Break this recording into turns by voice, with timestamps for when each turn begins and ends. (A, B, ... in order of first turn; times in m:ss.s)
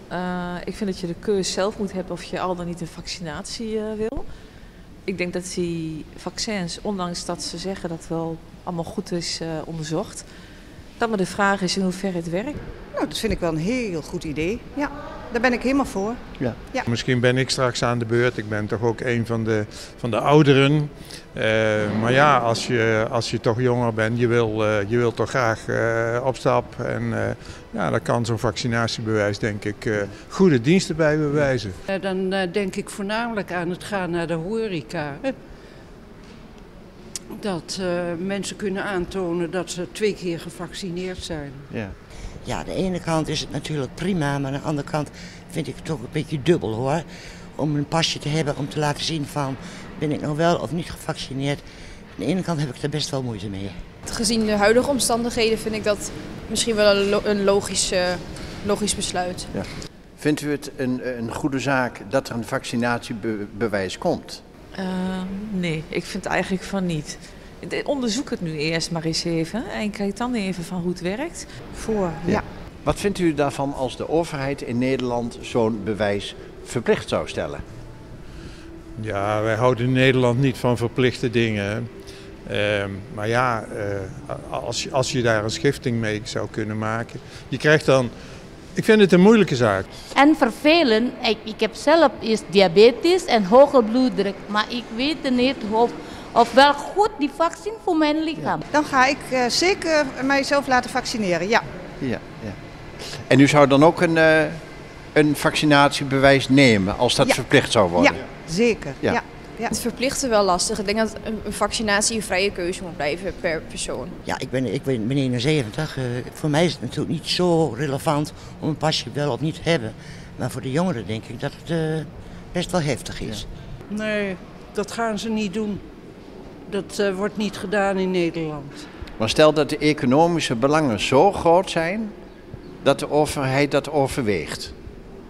0:00.1-0:04.3 A
0:05.0-0:10.2 A
0:11.0-0:12.6 A
0:12.9-0:16.9 B
0:16.9-0:31.8 C
0:31.9-0:35.3 D
0:37.3-0:41.7 D
0:41.7-0:41.9 E
0:42.4-0:51.6 F
0:52.2-0:53.8 F
0:54.1-0:59.5 G
0:59.5-1:04.4 E
1:04.8-1:11.4 A
1:11.7-1:12.4 B
1:12.2-1:17.6 E
1:19.0-1:28.1 C
1:28.7-1:29.8 C
1:30.1-1:38.6 H
1:38.7-1:41.6 B
1:42.0-1:42.6 E
1:43.3-1:48.2 E
1:47.2-1:49.7 B
1:49.7-1:54.1 G
1:54.2-2:03.4 F
2:03.9-2:05.8 D
2:06.6-2:08.8 D
2:09.2-2:12.1 E
2:12.8-2:14.7 E